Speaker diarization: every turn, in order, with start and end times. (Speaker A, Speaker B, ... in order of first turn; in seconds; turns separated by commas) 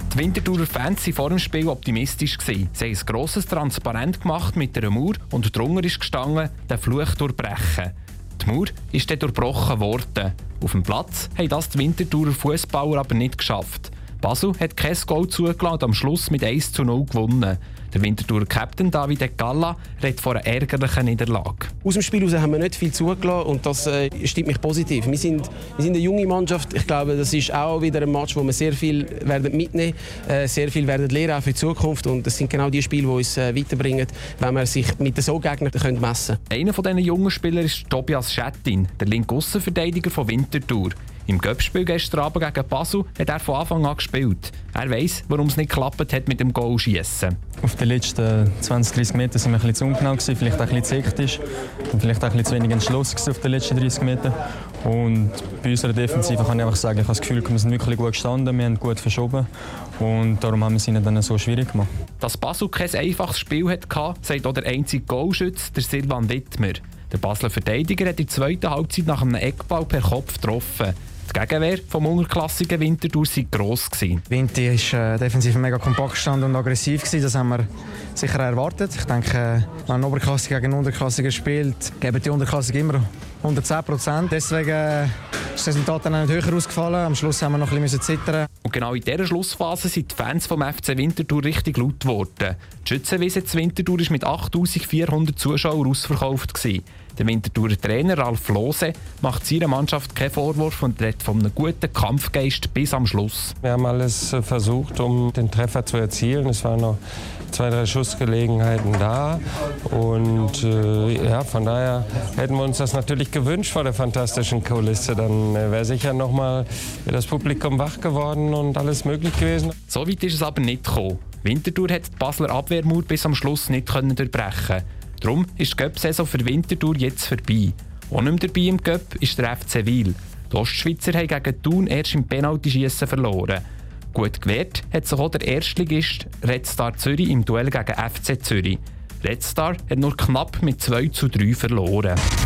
Speaker A: 0.1-21.7, Speaker B: 21.8-36.4, Speaker A: 36.5-47.4, Speaker C: 47.6-59.5, Speaker C: 60.0-61.9, Speaker A: 62.2-74.2, Speaker D: 74.3-77.7, Speaker D: 78.2-88.5, Speaker A: 88.6-103.5, Speaker E: 103.6-107.0, Speaker E: 107.5-119.7, Speaker A: 119.9-142.2